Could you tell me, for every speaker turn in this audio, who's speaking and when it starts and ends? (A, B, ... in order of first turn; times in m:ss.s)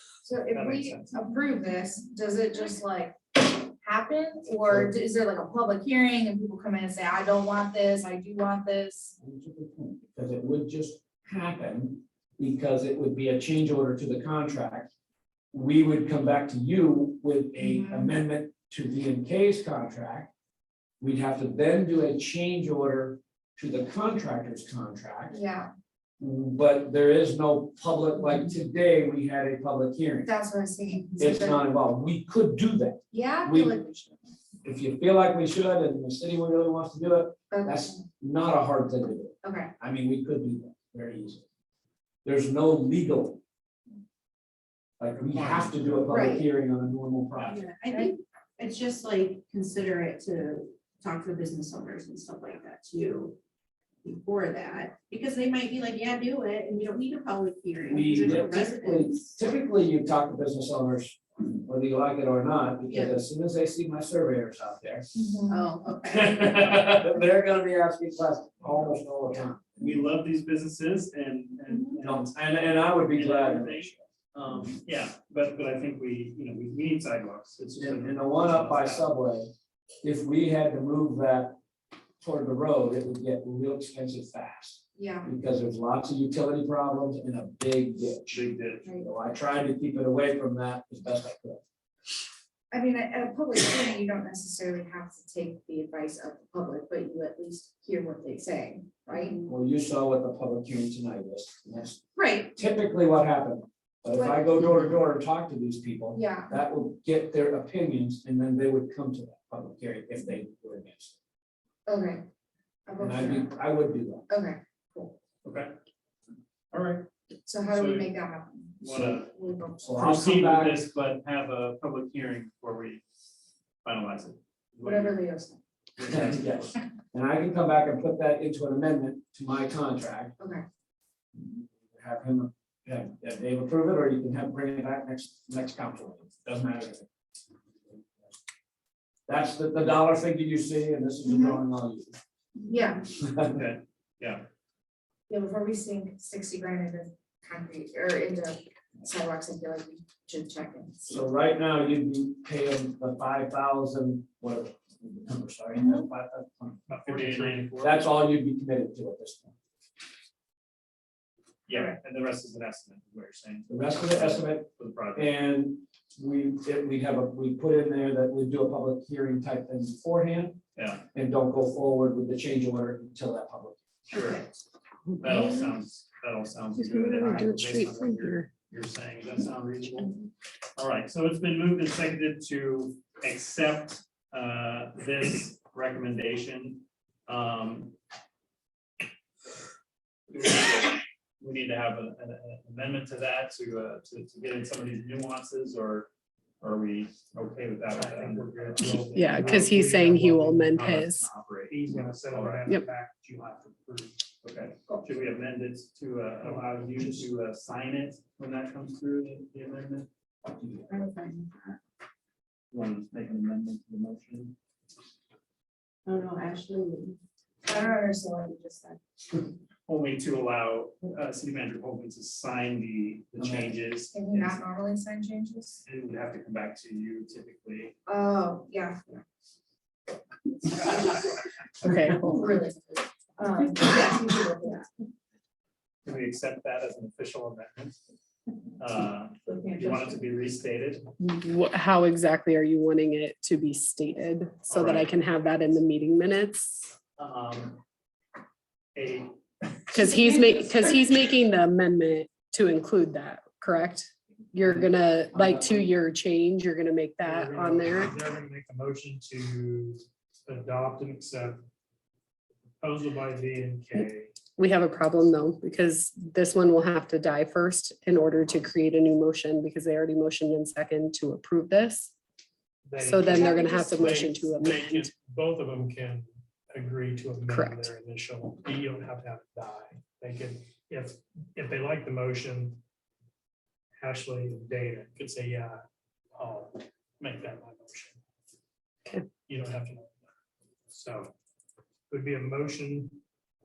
0:00.2-0:09.1 A
0:00.5-0:01.1 B
0:09.2-0:14.9 C
0:15.5-0:20.3 C
0:17.6-0:18.1 A
0:21.0-0:25.4 C
0:25.3-0:25.7 A
0:26.2-0:30.3 C
0:30.2-0:31.6 A
0:31.2-0:33.7 C
0:33.1-0:34.2 A
0:34.6-0:41.4 C
0:37.5-0:38.0 A
0:39.4-0:39.7 A
0:42.2-0:43.4 C
0:45.0-0:47.6 C
0:45.4-0:46.4 A
0:47.4-0:53.4 D
0:54.0-0:59.4 D
0:57.9-1:05.1 C
1:02.8-1:03.2 D
1:05.1-1:05.6 A
1:05.5-1:06.6 D
1:06.1-1:10.0 C
1:06.6-1:07.0 B
1:09.8-1:19.1 B
1:12.0-1:14.0 C
1:17.8-1:19.5 C
1:20.0-1:21.6 C
1:22.2-1:28.4 C
1:24.9-1:25.3 A
1:28.3-1:28.9 B
1:29.0-1:31.6 C
1:32.7-1:39.4 A
1:39.4-1:42.0 C
1:42.2-1:42.5 A
1:42.5-1:51.2 C
1:44.1-1:44.6 A
1:46.1-1:46.5 A
1:51.8-1:52.2 A
1:52.9-1:53.5 A
1:53.0-1:54.3 C
1:54.3-1:55.2 A
1:55.4-1:55.7 B
1:56.7-1:57.1 B
1:57.4-2:00.4 A
1:57.7-1:58.1 B
1:58.8-1:59.3 B
1:59.8-2:00.8 C
2:00.0-2:03.0 B
2:03.8-2:05.2 B
2:04.8-2:05.6 A
2:06.0-2:06.7 B
2:06.1-2:10.3 C
2:10.4-2:10.6 A
2:11.4-2:17.1 C
2:19.3-2:22.2 C
2:21.2-2:21.6 A
2:22.6-2:23.0 A
2:23.2-2:23.5 C
2:23.4-2:24.4 B
2:25.3-2:31.2 A
2:31.1-2:36.8 C
2:36.9-2:38.1 B
2:36.9-2:37.6 E
2:37.8-2:39.5 C
2:41.7-2:45.3 B
2:43.7-2:50.6 C
2:50.7-2:51.0 B
2:51.1-2:53.8 C
2:54.0-2:54.5 B
2:55.1-2:55.7 F
2:55.2-3:00.2 B
2:56.8-2:58.5 F
3:00.8-3:07.9 B
3:10.3-3:16.1 B
3:16.6-3:19.9 B
3:17.9-3:21.0 E
3:19.1-3:21.3 F
3:20.7-3:22.6 B
3:21.7-3:24.2 E
3:24.4-3:30.1 B
3:26.4-3:26.7 E
3:30.9-3:31.8 D
3:32.7-3:34.5 B
3:36.0-3:37.2 D
3:37.6-3:39.0 A
3:39.9-3:44.6 B
3:43.4-3:43.7 C
3:44.1-3:45.8 A
3:45.8-3:48.0 B
3:48.1-3:49.2 A
3:51.8-3:52.4 F
3:52.2-3:54.9 A
3:56.0-3:58.0 B
3:58.8-4:01.0 B
3:59.5-4:00.0 A
4:01.2-4:07.0 F
4:04.7-4:05.1 B
4:07.2-4:07.8 B
4:08.9-4:09.4 B
4:09.9-4:18.2 F
4:15.3-4:15.9 C
4:17.2-4:21.6 E
4:22.8-4:24.3 E
4:24.6-4:32.1 F
4:32.8-4:42.8 E
4:33.0-4:35.1 F
4:37.5-4:37.9 F
4:44.0-4:45.8 E
4:46.3-4:48.2 E
4:49.5-4:50.1 E
4:50.9-4:51.3 E
4:52.1-4:53.2 E